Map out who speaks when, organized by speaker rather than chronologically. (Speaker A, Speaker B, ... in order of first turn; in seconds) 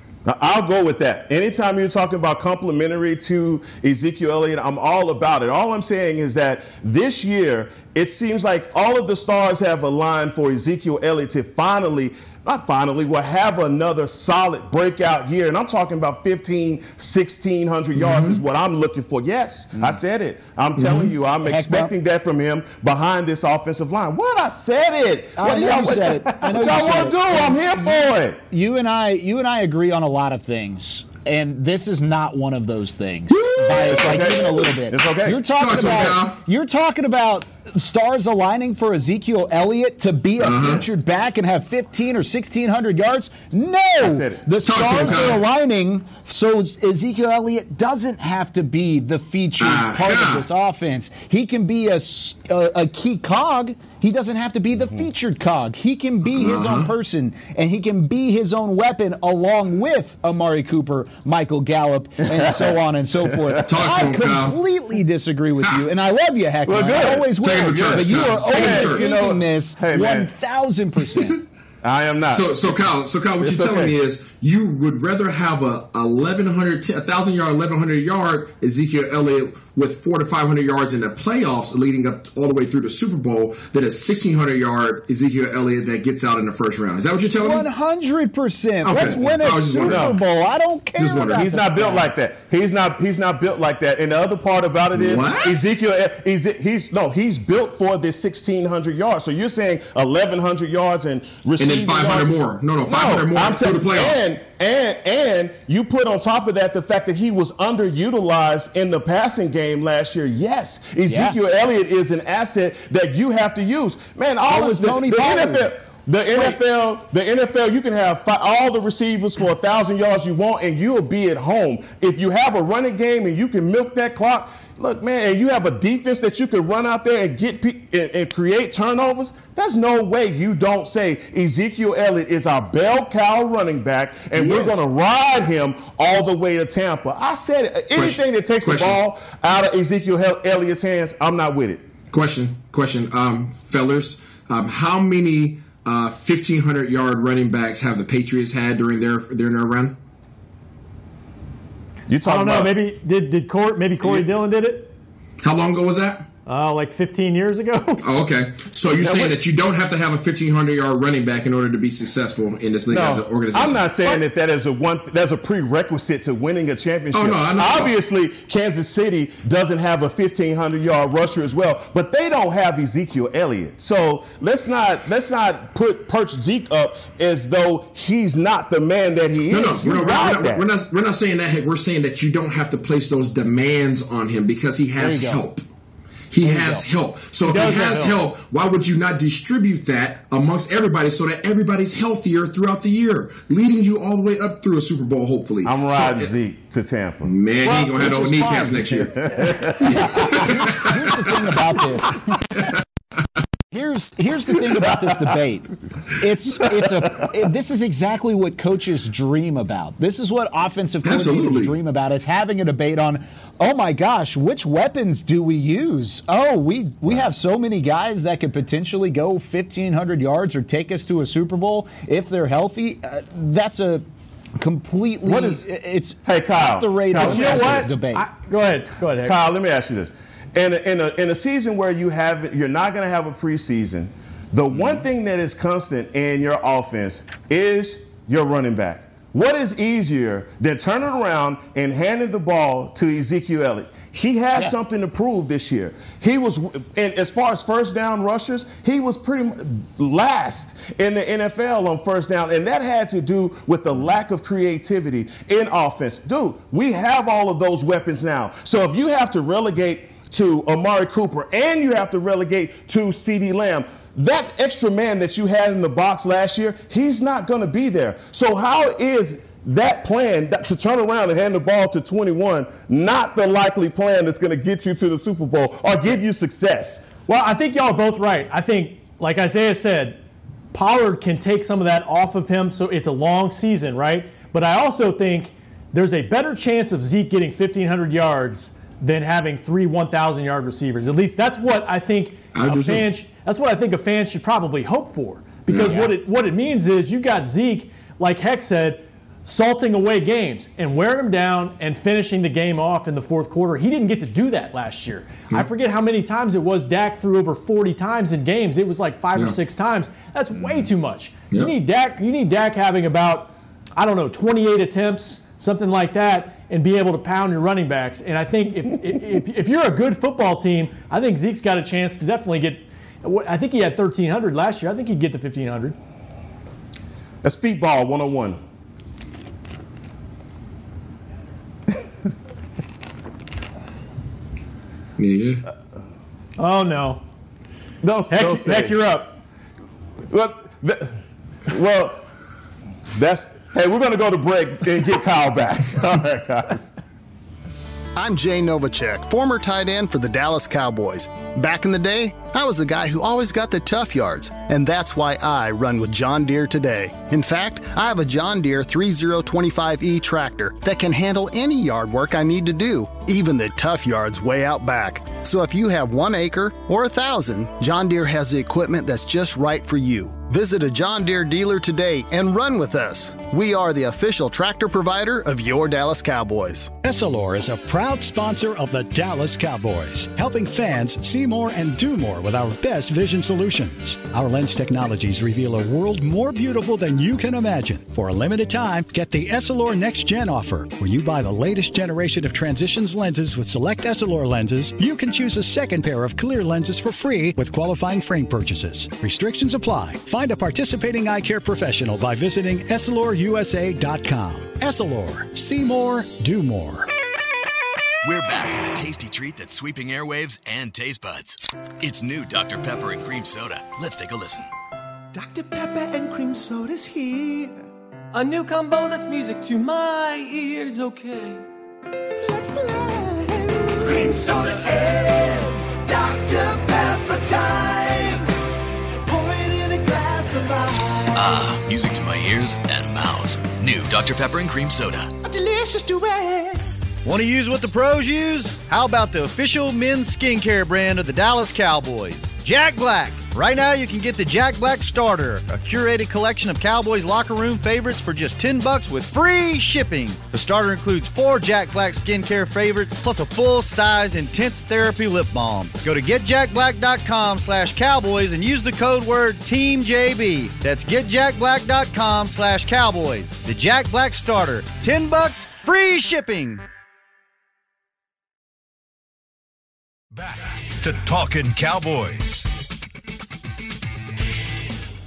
Speaker A: 0.2-28.4, 33.5-35.5, 44.0-45.3, 66.7-70.3, 71.8-72.5, 73.4-73.9, 89.7-90.1, 91.3-141.8, 152.1-152.7, 159.0-159.4, 162.9-180.7, 195.6-197.3, 198.1-200.0, 225.2-225.6, 226.2-227.9, 229.2-277.1, 327.4-328.6, 338.0-339.0, 340.3-342.2, 343.1-346.9
Speaker B: 18.0-18.4, 20.8-21.1, 35.6-36.4, 40.4-40.8, 44.6-45.4, 49.6-50.4, 56.3-56.9, 63.6-64.6, 67.4-69.0, 72.3-87.7, 88.8-90.2, 91.0-91.4, 94.9-95.7, 101.6-104.2, 134.3-134.8, 137.9-139.0, 142.1-150.0, 155.4-156.3, 158.0-163.8, 167.1-167.9, 179.5-185.6, 186.3-196.3, 197.2-200.8, 211.0-211.8, 292.5-293.1, 295.7-296.1, 335.2-335.6
Speaker C: 21.5-21.9, 25.4-71.4, 87.4-92.0, 111.1-111.4, 114.5-115.7, 185.0-185.4, 186.4-186.8, 197.9-198.9, 199.7-202.4, 203.7-224.0, 224.6-228.2
Speaker D: 152.2-154.9, 156.4-158.0, 187.4-188.2, 227.2-229.3, 277.3-280.2, 280.7-325.9, 336.6-337.2, 338.3-339.4
Speaker E: 348.1-376.9
Speaker F: 377.0-407.1
Speaker G: 408.2-414.7, 431.3-435.3
Speaker H: 415.3-417.8, 418.3-421.6, 422.4-428.5, 429.2-431.2, 435.4-436.9
Speaker I: 437.2-466.8
Speaker J: 470.3-472.7